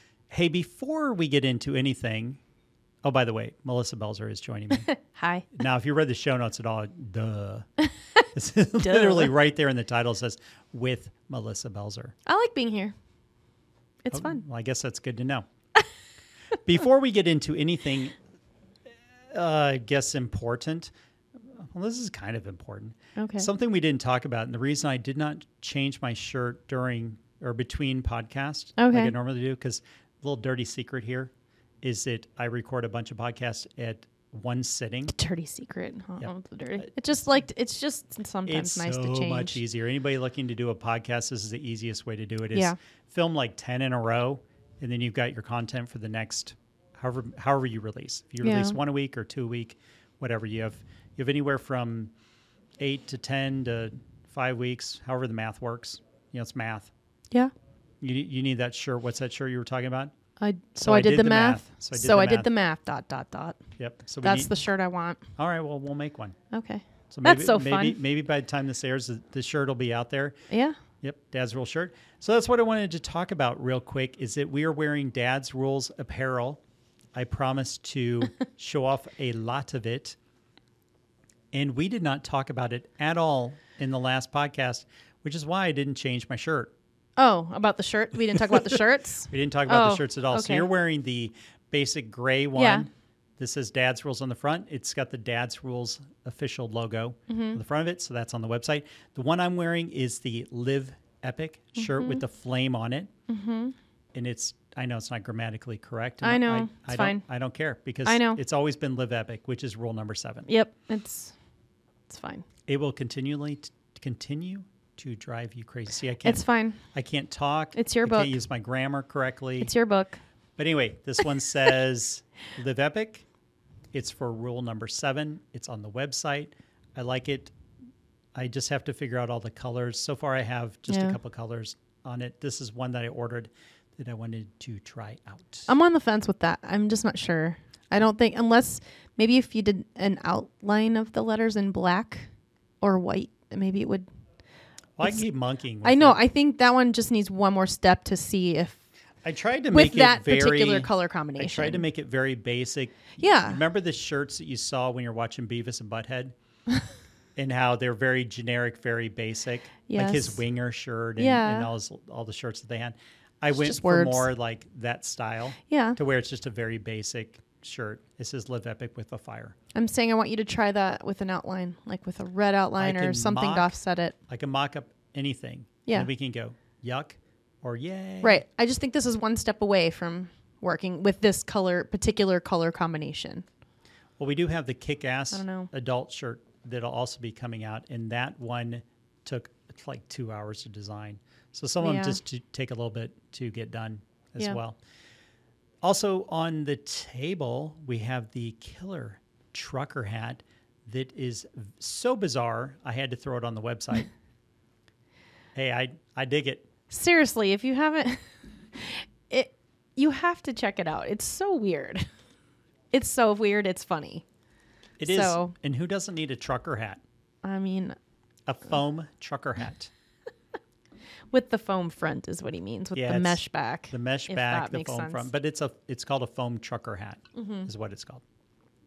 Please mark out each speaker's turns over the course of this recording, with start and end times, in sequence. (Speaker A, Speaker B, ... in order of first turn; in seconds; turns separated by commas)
Speaker A: 0.3-2.4, Speaker A: 3.0-4.9, Speaker B: 4.8-5.5, Speaker A: 5.5-7.7, Speaker A: 8.3-12.1, Speaker B: 8.8-9.3, Speaker B: 12.2-12.9, Speaker B: 14.0-14.4, Speaker A: 14.1-15.4, Speaker A: 16.6-18.2, Speaker A: 19.3-35.1, Speaker B: 23.2-23.5, Speaker B: 28.8-29.1, Speaker B: 35.1-39.6, Speaker A: 36.2-36.9, Speaker A: 38.5-52.1, Speaker B: 48.4-48.8, Speaker A: 52.8-56.9, Speaker A: 58.0-60.1, Speaker B: 60.4-63.6, Speaker A: 60.8-62.5, Speaker A: 63.8-64.5, Speaker B: 64.2-65.2, Speaker A: 65.4-66.3, Speaker B: 66.5-68.0, Speaker A: 67.1-70.3, Speaker B: 70.5-70.8, Speaker A: 71.0-76.6, Speaker A: 77.1-80.2, Speaker A: 81.5-86.7, Speaker B: 87.2-90.7, Speaker A: 89.3-103.1, Speaker B: 92.5-92.9, Speaker B: 97.3-97.6, Speaker B: 101.8-102.2, Speaker B: 103.3-103.7, Speaker A: 104.1-110.5, Speaker B: 106.2-107.2, Speaker B: 108.0-108.4, Speaker B: 110.5-111.3, Speaker B: 112.1-112.5, Speaker A: 112.7-119.7, Speaker B: 116.2-116.8, Speaker B: 117.8-118.3, Speaker B: 119.6-120.2, Speaker A: 120.6-123.2, Speaker A: 123.9-127.5, Speaker A: 128.3-135.7, Speaker B: 130.9-131.2, Speaker B: 135.7-144.1, Speaker A: 145.0-146.2, Speaker B: 145.8-148.8, Speaker A: 149.2-156.3, Speaker B: 149.7-151.8, Speaker B: 153.2-153.6, Speaker A: 157.3-169.5, Speaker B: 159.9-160.4, Speaker B: 161.2-161.7, Speaker B: 163.5-164.3, Speaker B: 165.7-166.0, Speaker B: 169.7-174.1, Speaker A: 172.8-173.7, Speaker A: 174.3-178.4, Speaker B: 178.2-183.4, Speaker A: 184.2-194.8, Speaker B: 185.3-185.7, Speaker B: 191.8-192.2, Speaker A: 195.8-204.1, Speaker A: 205.5-206.7, Speaker B: 206.9-208.2, Speaker B: 208.7-212.1, Speaker B: 212.9-214.2, Speaker A: 215.0-217.0, Speaker B: 215.0-215.5, Speaker B: 217.4-218.0, Speaker A: 218.5-219.9, Speaker B: 221.3-225.3, Speaker A: 222.9-228.2, Speaker B: 227.3-227.7